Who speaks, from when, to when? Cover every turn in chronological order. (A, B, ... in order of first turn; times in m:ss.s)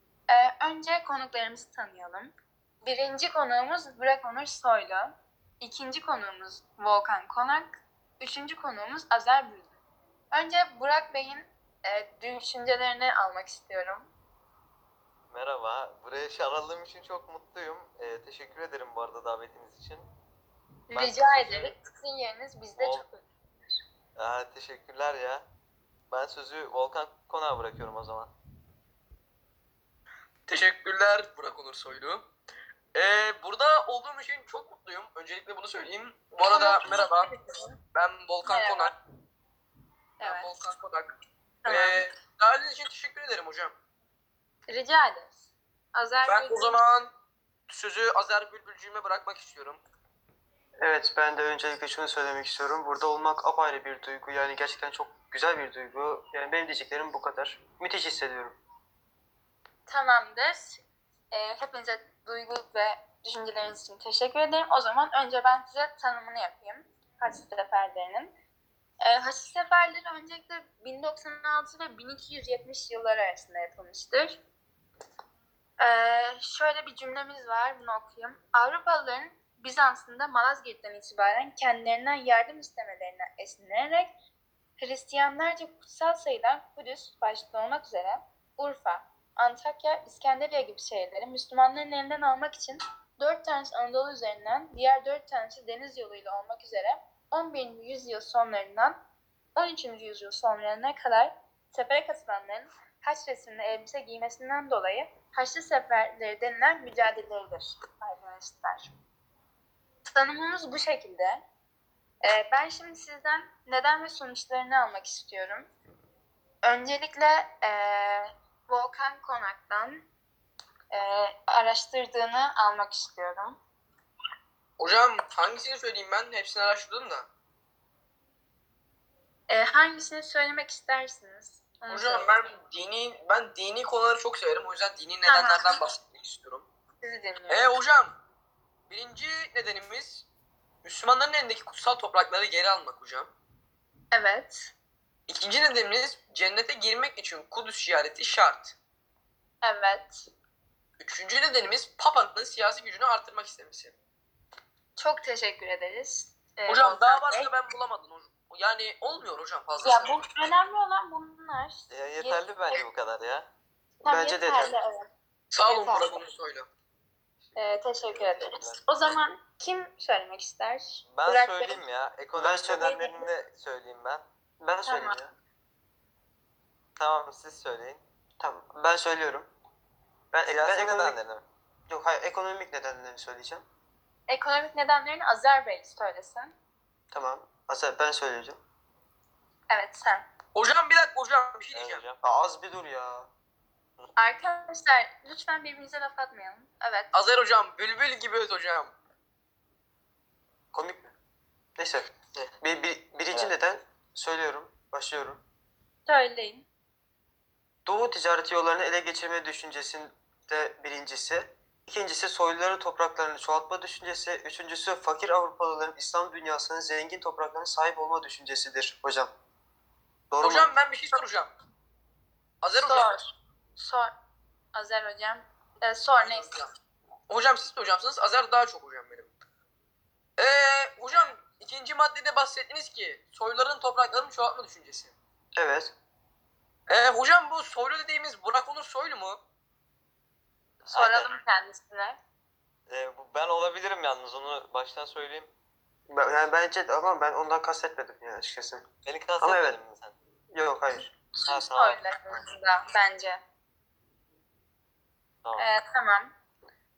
0:00.3-0:09.7 A
0:10.3-0:14.1 A
0:15.3-0:20.1 B
0:20.9-0:23.2 A
0:20.9-0:21.8 B
0:22.8-0:23.0 B
0:24.2-0:25.4 B
0:26.1-0:28.3 B
0:30.5-0:32.2 C
0:33.0-0:37.3 C
0:36.4-0:37.8 A
0:37.9-0:38.9 C
0:38.4-0:38.9 A
0:40.2-0:40.5 A
0:40.2-0:41.2 C
0:41.6-0:42.0 A
0:41.7-0:43.8 C
0:44.7-0:46.8 A
0:46.2-0:47.1 C
0:47.7-0:49.8 C
0:50.8-0:58.6 D
0:59.9-1:08.3 A
1:09.0-1:14.4 A
1:15.8-1:24.1 A
1:24.8-1:39.0 A
1:39.6-1:48.9 A
1:50.1-1:51.4 A
1:52.2-1:55.7 A
1:56.6-2:00.0 A
2:00.9-2:03.6 A
2:04.8-2:07.3 C
2:09.5-2:12.4 A
2:11.9-2:16.7 C
2:15.3-2:15.8 A
2:17.0-2:17.7 A
2:17.5-2:18.2 C
2:18.9-2:20.2 C
2:20.8-2:23.3 C
2:24.1-2:24.7 A
2:25.3-2:28.8 C
2:29.6-2:30.3 A
2:31.0-2:34.0 C
2:35.0-2:37.5 A
2:36.7-2:40.2 C
2:39.8-2:42.8 A
2:41.9-2:43.5 B
2:44.0-2:45.1 A
2:44.1-2:44.8 D
2:45.5-2:46.7 C
2:45.6-2:46.2 A
2:47.4-2:48.9 B
2:47.6-2:51.8 A
2:51.1-2:54.2 B
2:52.3-2:53.0 D
2:52.8-2:53.2 A
2:54.6-2:55.3 D
2:54.8-2:55.2 A
2:57.0-2:58.0 B
2:58.4-2:59.5 D
3:00.3-3:01.2 D
3:00.5-3:01.4 B
3:01.9-3:03.6 D
3:04.3-3:06.6 A
3:07.1-3:08.6 D
3:09.7-3:10.3 A
3:10.5-3:12.0 C
3:11.7-3:12.2 B
3:12.2-3:13.3 D
3:14.2-3:17.1 A
3:17.1-3:18.9 C
3:20.7-3:21.1 D
3:21.8-3:22.1 D
3:22.6-3:25.4 D
3:26.1-3:26.7 A
3:27.9-3:39.3 D
3:40.3-3:40.7 D
3:40.4-3:41.5 C
3:42.6-3:43.1 C
3:42.8-3:44.1 A
3:44.7-3:46.6 A
3:46.2-3:46.7 C
3:47.3-3:49.3 C
3:50.4-3:55.2 C
3:55.6-3:55.9 D
3:56.9-3:59.4 C
4:00.8-4:02.2 A
4:00.9-4:01.3 B
4:02.9-4:05.5 B
4:06.1-4:08.8 D
4:09.0-4:10.2 B
4:09.4-4:09.8 D
4:10.5-4:11.1 D
4:11.4-4:13.4 A
4:11.5-4:12.4 B
4:15.6-4:16.3 A